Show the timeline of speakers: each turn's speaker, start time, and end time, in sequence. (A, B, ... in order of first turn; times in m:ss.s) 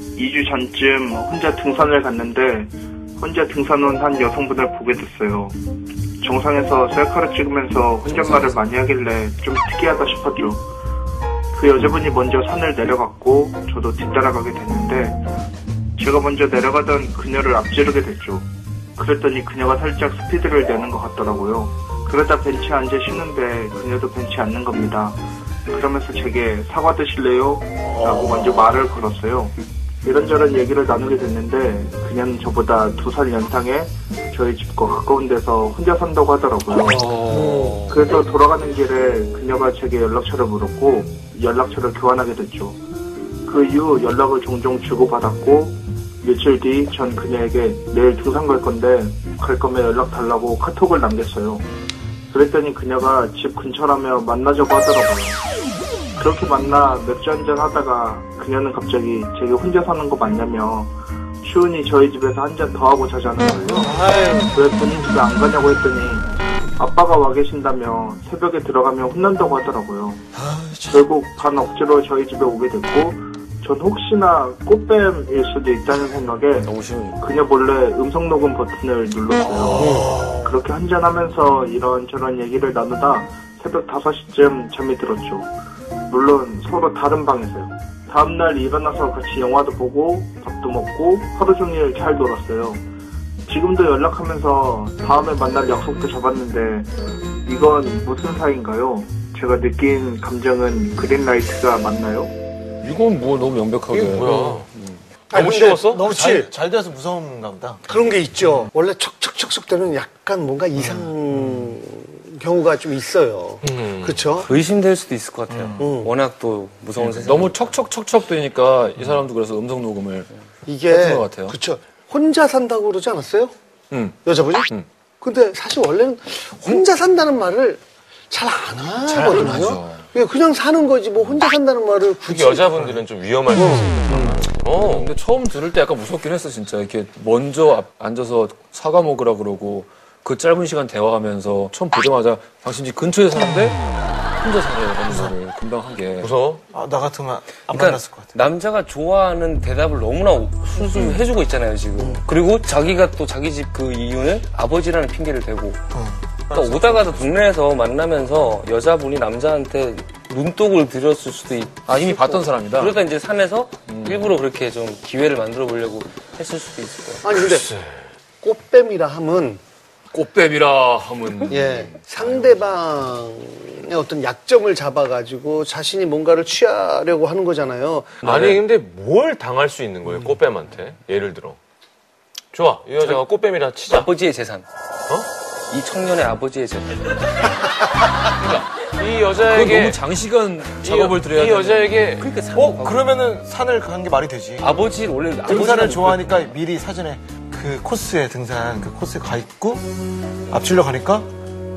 0:00.2-0:05.6 A
0:06.2-0:10.6 A
0:11.5-0:15.2 A
0:16.0-0:37.0 A
0:28.2-0:28.6 B
0:36.9-0:37.8 C
0:37.9-0:42.8 A
0:43.5-0:51.7 A
0:52.3-0:55.4 A
0:56.2-1:10.2 A
1:03.7-1:04.6 C
1:10.5-1:11.0 B
1:10.9-1:25.5 A
1:16.6-1:17.2 D
1:19.4-1:20.5 B
1:19.8-1:20.2 C
1:26.1-1:32.8 A
1:33.5-1:36.9 A
1:37.4-1:42.3 A
1:42.8-1:45.0 D
1:43.9-1:44.7 E
1:45.3-1:46.0 E
1:45.3-1:46.5 C
1:45.9-1:47.9 B
1:47.9-1:54.5 C
1:53.6-1:54.3 E
1:54.4-1:57.6 F
1:55.5-1:55.8 B
1:55.8-1:56.1 C
1:57.1-2:00.3 D
2:00.7-2:03.5 C
2:00.9-2:01.6 D
2:03.9-2:04.2 D
2:04.2-2:04.7 C
2:05.2-2:14.0 C
2:09.0-2:10.0 D
2:12.2-2:15.2 E
2:14.0-2:23.8 D
2:24.4-2:26.3 D
2:25.0-2:25.4 B
2:26.2-2:26.6 E
2:26.7-2:28.3 B
2:27.7-2:35.8 F
2:35.9-2:37.4 B
2:36.5-2:47.2 F
2:41.9-2:43.0 D
2:43.9-2:44.3 D
2:47.2-2:47.7 C
2:47.4-2:48.0 E
2:48.4-2:49.6 C
2:50.1-2:52.6 D
2:51.5-2:58.4 C
2:58.2-3:01.6 E
3:02.5-3:04.1 E
3:03.8-3:04.7 F
3:05.7-3:07.1 F
3:08.4-3:10.0 E
3:09.5-3:12.0 D
3:10.8-3:12.3 E
3:12.2-3:13.1 F
3:12.5-3:14.7 B
3:14.6-3:16.3 F
3:15.4-3:19.9 B
3:20.5-3:21.3 B